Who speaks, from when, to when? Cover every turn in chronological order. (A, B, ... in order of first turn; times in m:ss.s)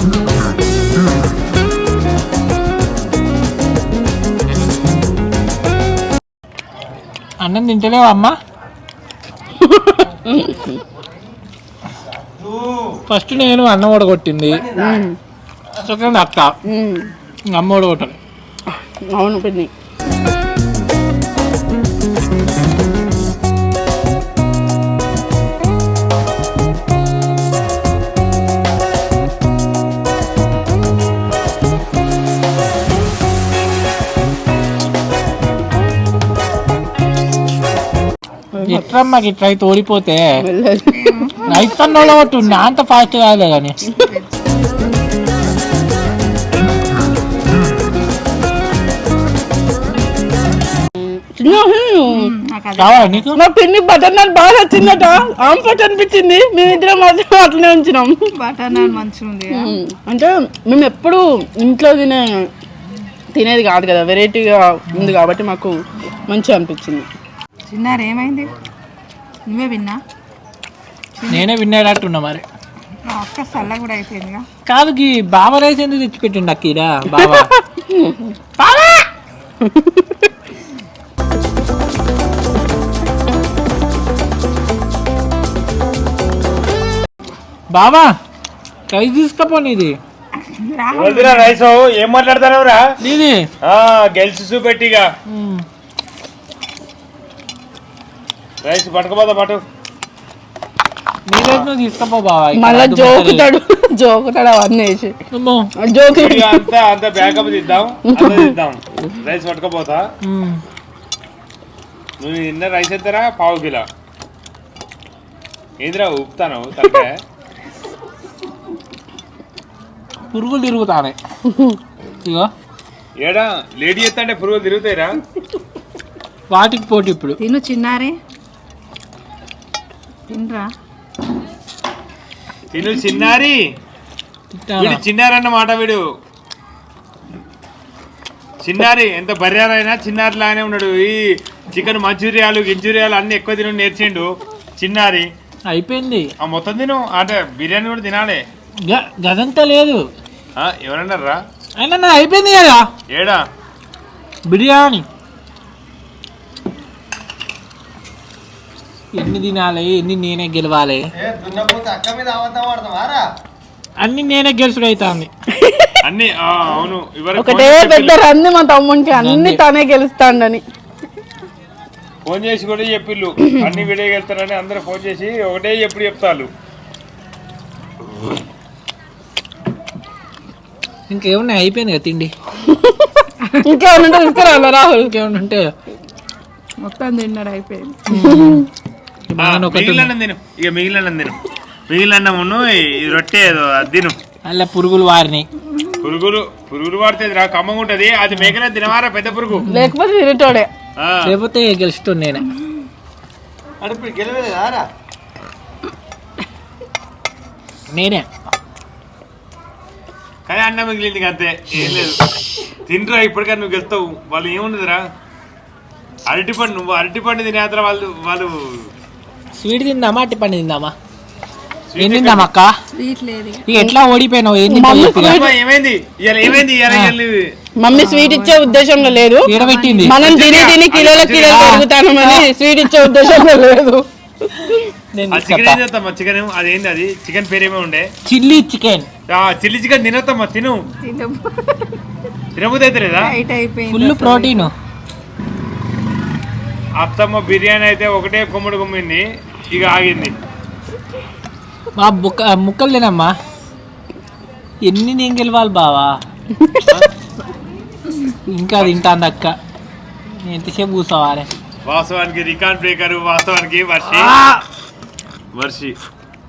0:07.4-0:08.4 A
0:09.6-0:10.8 B
0:12.3-0:13.0 C
0:13.1-0:14.7 A
0:14.5-0:15.0 C
0:14.8-0:15.2 B
0:15.8-0:16.5 A
0:16.7-0:17.1 B
0:17.5-0:18.2 A
0:18.7-0:19.7 B
0:38.6-0:38.9 B
0:38.7-0:40.4 A
0:40.4-0:41.1 B
0:40.9-0:41.7 D
0:41.5-0:43.8 A
0:43.9-0:44.3 D
0:51.0-0:52.3 B
0:52.1-0:53.3 D
0:52.8-0:53.4 A
0:53.4-0:59.0 B
0:58.4-0:59.8 D
0:59.5-1:02.5 B
1:03.4-1:05.8 B
1:06.3-1:07.1 B
1:07.7-1:08.5 D
1:09.5-1:10.0 D
1:11.2-1:11.5 D
1:11.3-1:12.4 A
1:13.1-1:14.5 D
1:14.7-1:17.5 A
1:17.2-1:18.8 B
1:19.6-1:20.3 B
1:27.7-1:28.1 A
1:28.9-1:30.0 A
1:30.4-1:31.6 D
1:30.9-1:32.9 E
1:33.0-1:33.5 A
1:33.6-1:35.1 E
1:35.3-1:35.6 A
1:38.6-1:39.6 E
1:41.3-1:43.5 A
1:42.6-1:45.2 B
1:45.3-1:45.7 A
1:45.8-1:46.6 B
1:46.1-1:50.1 E
1:48.1-1:48.5 B
1:50.2-1:50.6 A
1:52.2-1:53.9 E
1:55.8-1:57.1 E
2:00.3-2:01.2 A
2:01.5-2:01.8 B
2:03.2-2:05.2 E
2:06.5-2:07.4 A
2:07.4-2:08.2 D
2:10.3-2:10.7 D
2:12.7-2:13.6 E
2:14.6-2:15.0 A
2:14.8-2:16.0 E
2:18.6-2:25.3 E
2:25.7-2:26.3 A
2:26.4-2:28.4 E
2:28.8-2:30.1 A
2:30.6-2:31.4 E
2:31.8-2:32.9 A
2:33.1-2:33.4 E
2:34.5-2:35.0 A
2:39.2-2:41.1 A
2:41.2-2:43.2 C
2:44.0-2:45.3 A
2:45.6-2:46.0 B
2:46.0-2:48.2 E
2:47.4-2:50.6 B
2:49.2-2:49.6 A
2:52.3-2:56.5 E
3:01.1-3:02.3 A
3:02.6-3:05.1 B
3:05.0-3:05.7 A
3:06.8-3:08.1 D
3:08.1-3:08.7 A
3:08.1-3:08.7 B
3:09.3-3:10.1 A
3:09.4-3:14.2 E
3:14.5-3:15.5 A
3:16.0-3:19.7 E
3:19.6-3:19.9 A
3:19.7-3:20.7 B
3:21.0-3:21.3 E
3:21.2-3:22.5 A
3:23.8-3:24.9 C
3:27.9-3:28.3 A
3:30.5-3:32.2 E
3:32.9-3:35.0 E
3:36.3-3:38.9 E
3:39.6-3:40.9 A
3:41.9-3:42.5 E
3:42.0-3:42.8 A
3:43.0-3:43.7 D
3:43.7-3:45.4 A
3:44.7-3:45.5 B
3:45.2-3:47.5 E
3:46.9-3:47.2 A
3:47.8-3:49.5 B
3:47.9-3:50.2 D
3:49.4-3:50.2 A
3:50.0-3:54.8 B
3:50.1-3:51.8 E
3:51.5-3:53.2 A
3:55.1-3:55.8 A
3:55.3-3:58.1 E
3:58.3-3:59.1 A
3:59.3-4:00.8 E
4:01.0-4:02.0 D
4:02.6-4:03.3 E
4:03.2-4:04.7 D
4:03.9-4:04.7 A
4:07.0-4:10.4 E
4:12.0-4:13.3 A
4:14.8-4:16.2 A
4:16.5-4:17.1 B
4:18.5-4:19.6 A
4:20.4-4:21.5 A
4:21.9-4:24.3 E
4:24.1-4:24.6 A
4:25.6-4:26.0 E